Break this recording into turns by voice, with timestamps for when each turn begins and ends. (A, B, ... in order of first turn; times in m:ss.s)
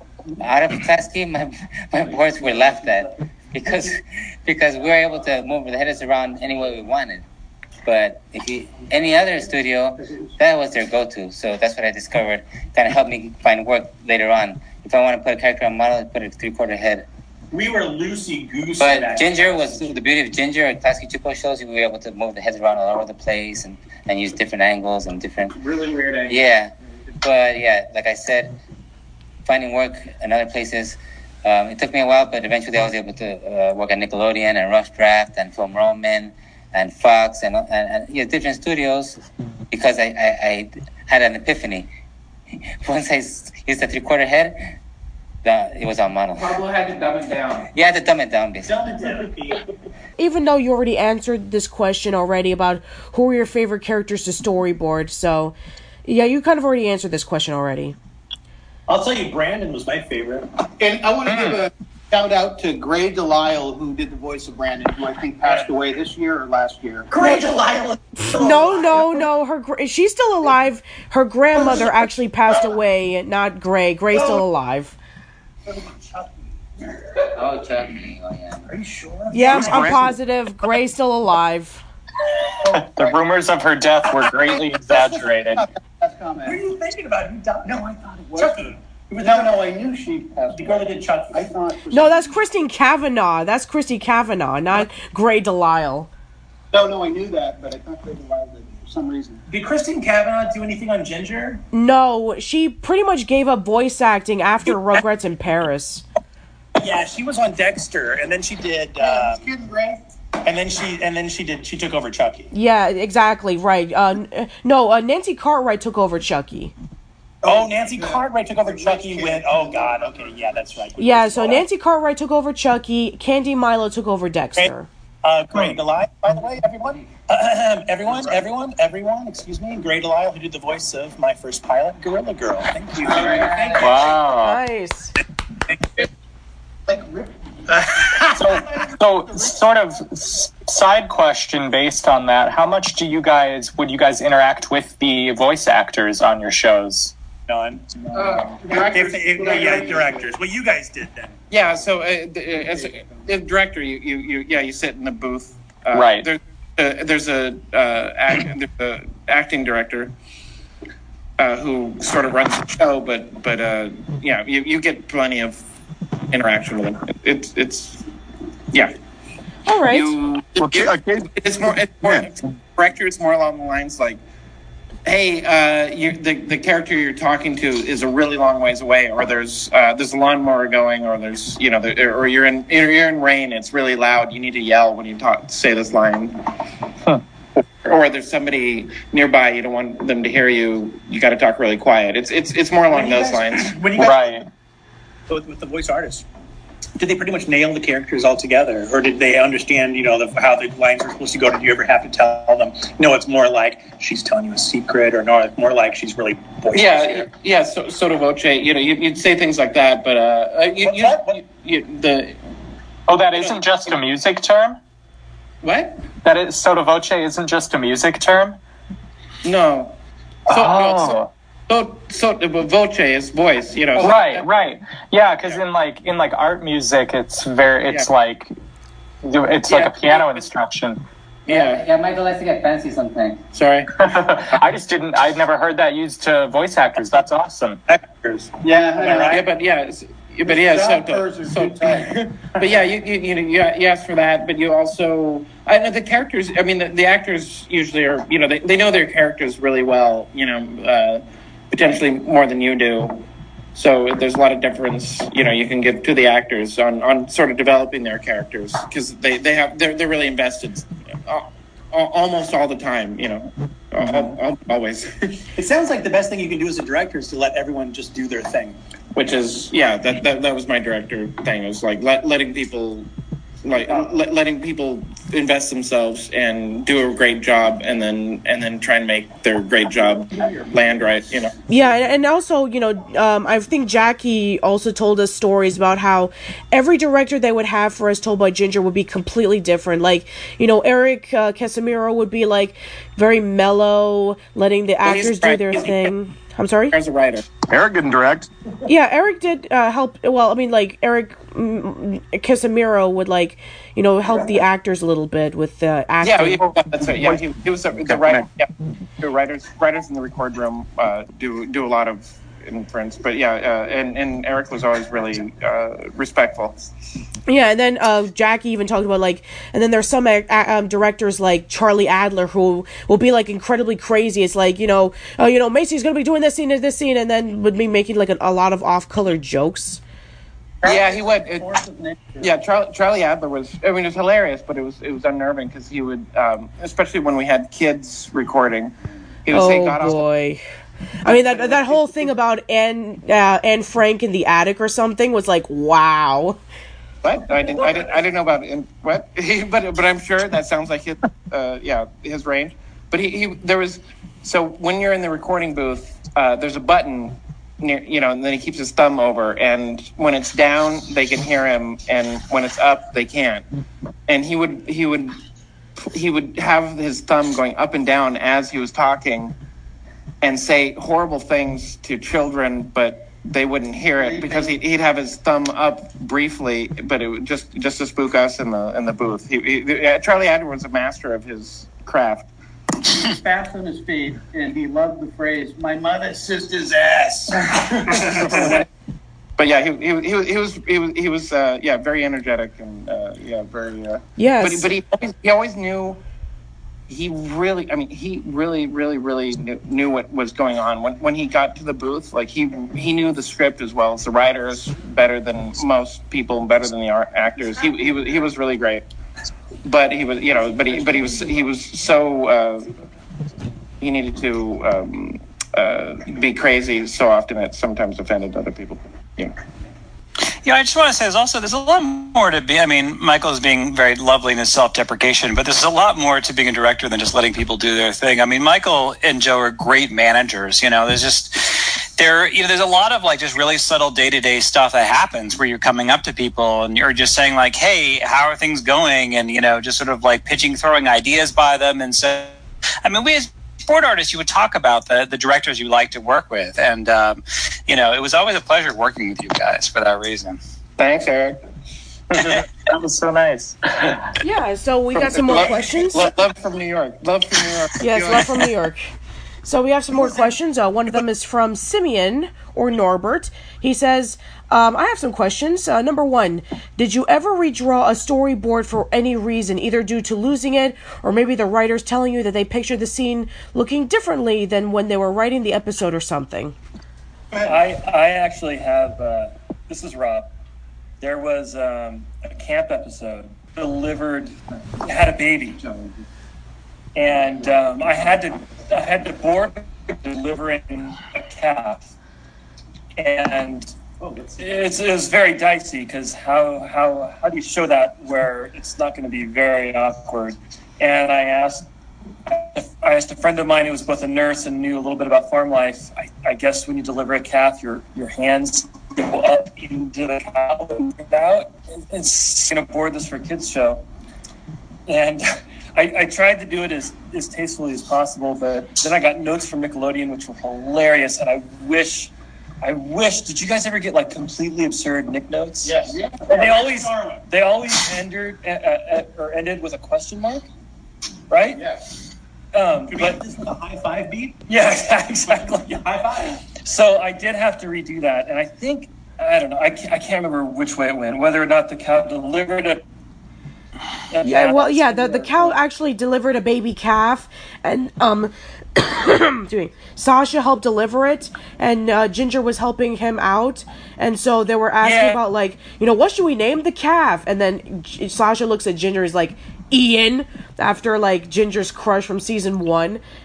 0:00.4-0:07.2 A
0:07.9-0:17.1 A
0:17.5-0:19.9 B
0:18.8-0:25.6 A
0:25.6-0:26.4 C
0:26.3-0:28.6 A
0:29.4-0:39.2 A
0:39.7-0:41.9 A
0:42.8-0:44.6 A
0:45.4-0:46.5 A
0:46.4-0:47.7 C
0:47.7-0:48.9 A
0:48.6-0:49.6 B
0:50.2-0:55.6 D
0:56.1-0:58.0 D
0:58.9-1:00.5 B
1:00.8-1:07.4 E
1:01.3-1:01.6 F
1:07.1-1:09.2 B
1:08.2-1:15.0 D
1:11.6-1:11.9 B
1:14.1-1:14.4 B
1:15.7-1:17.2 B
1:17.4-1:18.7 A
1:18.7-1:20.0 B
1:19.3-1:21.8 D
1:19.4-1:20.1 G
1:22.7-1:25.6 F
1:22.7-1:23.2 E
1:24.9-1:26.6 E
1:26.4-1:29.7 B
1:27.6-1:28.7 E
1:29.2-1:32.4 E
1:30.5-1:31.5 B
1:31.9-1:36.1 D
1:36.7-1:39.4 E
1:39.5-1:41.6 B
1:41.7-1:46.0 D
1:46.8-1:49.5 B
1:49.0-1:50.0 E
1:50.4-1:52.5 B
1:52.5-1:56.7 D
1:57.4-2:00.6 E
1:57.4-2:01.6 B
2:01.0-2:04.9 D
2:04.6-2:14.2 B
2:13.2-2:13.5 E
2:13.3-2:13.8 A
2:13.8-2:14.6 F
2:14.4-2:15.1 D
2:16.9-2:17.3 E
2:17.7-2:18.4 B
2:18.2-2:19.6 E
2:18.3-2:27.1 F
2:27.5-2:31.4 B
2:28.1-2:30.2 C
2:29.4-2:30.0 E
2:31.5-2:40.1 C
2:35.9-2:36.3 F
2:41.4-2:45.6 C
2:46.3-2:48.0 C
2:49.7-2:50.1 D
2:49.9-2:54.2 C
2:50.6-2:52.3 G
2:55.0-3:06.4 C
3:07.8-3:14.2 C
3:12.9-3:14.4 B
3:14.0-3:14.4 F
3:15.3-3:16.2 B
3:17.0-3:27.3 B
3:26.7-3:32.4 C
3:30.8-3:31.4 B
3:33.1-3:34.8 F
3:35.6-3:36.0 C
3:36.2-3:38.6 F
3:39.4-3:40.0 C
3:40.5-3:41.3 F
3:40.5-3:44.4 C
3:44.0-3:48.5 F
3:44.0-3:44.3 B
3:49.2-3:51.0 F
3:49.7-3:50.5 C
3:51.5-3:51.8 C
3:51.5-3:53.4 A
3:53.5-3:53.9 C
3:54.0-3:57.8 F
3:57.9-3:59.4 B
3:58.6-3:59.4 E
3:59.0-4:13.2 C
4:00.4-4:02.2 E
4:13.8-4:25.4 C
4:25.6-4:28.8 B
4:29.1-4:33.1 C
4:33.6-4:41.5 C
4:39.9-4:40.7 B
4:41.7-4:57.0 D
4:55.0-4:56.1 C
4:56.9-4:57.4 C
4:57.7-4:58.5 G
4:58.9-5:06.6 D
5:06.2-5:16.8 C
5:07.2-5:07.4 G
5:08.0-5:08.5 G
5:17.5-5:30.0 D
5:30.8-5:32.2 B
5:30.8-5:31.7 C
5:31.8-5:32.4 E
5:32.4-5:38.9 C
5:39.4-5:40.3 C
5:39.5-5:40.6 D
5:41.2-5:46.6 D
5:41.3-5:41.9 C
5:47.2-6:03.7 C
6:04.3-6:05.4 C
6:06.0-6:09.6 C
6:10.4-6:22.5 C
6:14.2-6:14.8 E
6:23.1-6:27.0 E
6:26.8-6:28.8 B
6:27.7-6:28.8 E
6:28.2-6:28.9 C
6:29.6-6:36.2 C
6:34.4-6:34.9 D
6:37.1-6:49.0 C
6:49.8-6:52.9 C
6:54.0-6:59.5 C
7:00.6-7:30.6 H
7:31.0-7:31.6 C
7:32.4-7:34.3 F
7:34.4-7:36.2 D
7:35.2-7:38.7 C
7:38.0-7:39.1 D
7:39.6-7:56.8 D
7:57.6-8:00.5 I
8:01.2-8:05.8 I
8:05.8-8:06.2 C
8:07.1-8:12.1 I
8:13.2-8:14.0 I
8:14.3-8:14.8 B
8:14.6-8:21.9 I
8:22.5-8:34.0 I
8:35.1-8:46.0 I
8:45.8-8:47.4 B
8:46.5-8:50.7 I
8:51.5-8:51.8 I
8:52.7-8:53.4 I
8:53.1-8:54.6 B
8:54.7-8:56.0 I
8:55.4-8:56.6 B
8:56.7-9:03.0 I
9:04.3-9:05.8 I
9:04.4-9:23.2 D
9:15.0-9:15.4 I